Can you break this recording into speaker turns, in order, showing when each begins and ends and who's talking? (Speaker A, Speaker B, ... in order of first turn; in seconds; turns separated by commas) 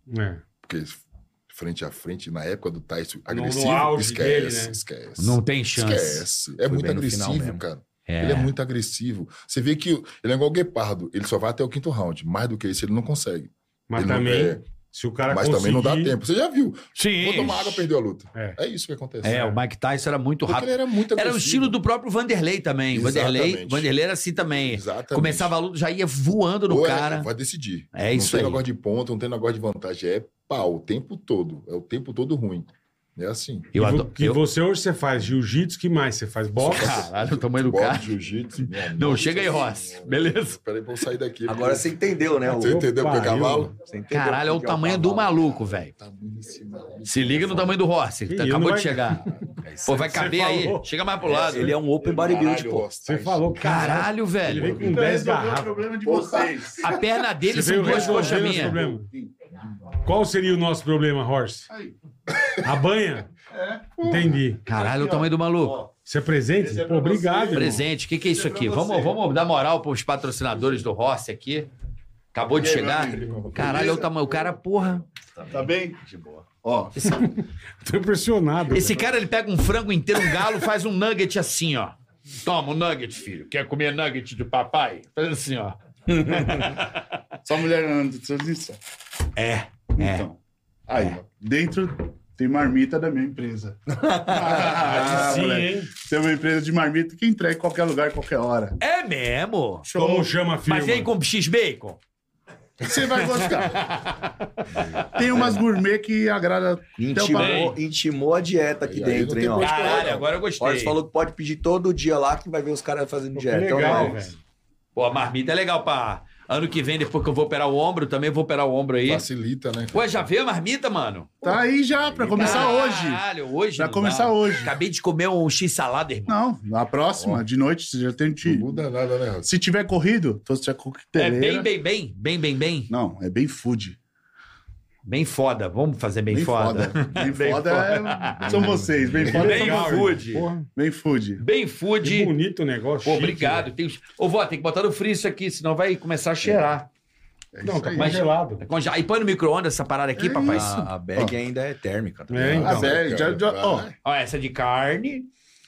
Speaker A: 0.1-0.4, Speaker B: 0.6-14.7, Speaker A: 3.3-4.8, Speaker C: 5.2-6.2, Speaker D: 6.6-7.6, Speaker C: 8.1-8.5, Speaker A: 13.9-16.1, Speaker B: 15.3-19.6, Speaker C: 16.9-17.9, Speaker C: 19.2-27.3, Speaker B: 20.4-21.8, Speaker B: 22.9-23.9, Speaker B: 24.4-25.5, Speaker B: 26.7-33.7, Speaker C: 27.9-28.6, Speaker C: 33.7-34.4, Speaker A: 33.8-37.0, Speaker B: 36.6-41.9, Speaker C: 36.6-38.1, Speaker C: 38.7-40.6, Speaker D: 41.5-42.8, Speaker B: 42.5-43.7, Speaker A: 42.6-43.7, Speaker D: 43.7-45.5, Speaker C: 44.1-45.9, Speaker B: 45.3-47.8, Speaker C: 47.0-51.8, Speaker A: 48.3-49.3, Speaker A: 49.9-50.8, Speaker D: 51.2-52.9, Speaker B: 51.2-54.0, Speaker A: 53.0-55.8, Speaker C: 53.6-54.9, Speaker E: 54.6-57.0, Speaker B: 56.1-57.0, Speaker C: 56.8-58.8, Speaker A: 57.4-59.1, Speaker E: 57.8-59.3, Speaker A: 60.0-61.7, Speaker E: 61.7-61.9, Speaker B: 62.3-62.6, Speaker A: 62.6-63.3, Speaker E: 63.5-63.9, Speaker B: 64.0-64.4, Speaker A: 64.0-64.6, Speaker C: 64.6-65.8, Speaker E: 64.7-65.9, Speaker A: 66.0-67.8, Speaker E: 66.6-69.2, Speaker C: 67.5-71.7, Speaker B: 70.5-70.8, Speaker C: 72.3-75.0, Speaker E: 72.6-74.0, Speaker B: 72.6-75.5, Speaker E: 75.5-77.0, Speaker C: 76.9-77.2, Speaker A: 77.1-79.0, Speaker C: 78.7-87.0, Speaker E: 87.4-88.8, Speaker C: 89.3-90.3, Speaker E: 90.0-90.4, Speaker E: 90.9-98.7, Speaker D: 93.9-94.7, Speaker A: 94.7-95.9, Speaker C: 98.8-99.9, Speaker E: 99.8-100.4, Speaker A: 100.0-101.1, Speaker C: 100.6-102.0, Speaker E: 102.8-103.8, Speaker C: 103.1-105.0, Speaker E: 105.1-107.8, Speaker D: 105.2-105.5, Speaker D: 107.0-114.3, Speaker C: 107.4-107.7, Speaker B: 108.8-110.4, Speaker C: 109.6-111.0, Speaker A: 113.3-114.4, Speaker C: 115.0-119.2, Speaker B: 119.0-120.3, Speaker C: 119.9-121.3, Speaker B: 121.4-122.7, Speaker E: 121.4-124.7, Speaker C: 122.3-126.3, Speaker E: 126.3-128.7, Speaker B: 128.4-129.5, Speaker E: 129.4-131.7, Speaker C: 131.2-132.9, Speaker E: 132.9-134.0, Speaker C: 135.0-138.7, Speaker E: 136.3-140.1, Speaker B: 138.3-139.4, Speaker D: 138.5-139.3, Speaker C: 139.2-140.5, Speaker A: 139.3-140.7, Speaker E: 140.7-141.4, Speaker C: 141.4-142.3, Speaker A: 142.0-143.7, Speaker C: 143.0-146.9, Speaker E: 147.5-148.3, Speaker A: 147.6-148.6, Speaker C: 147.9-150.7, Speaker E: 150.2-151.3, Speaker D: 150.5-152.9, Speaker A: 152.3-153.0, Speaker B: 152.5-153.9, Speaker E: 152.6-153.9, Speaker C: 154.0-155.3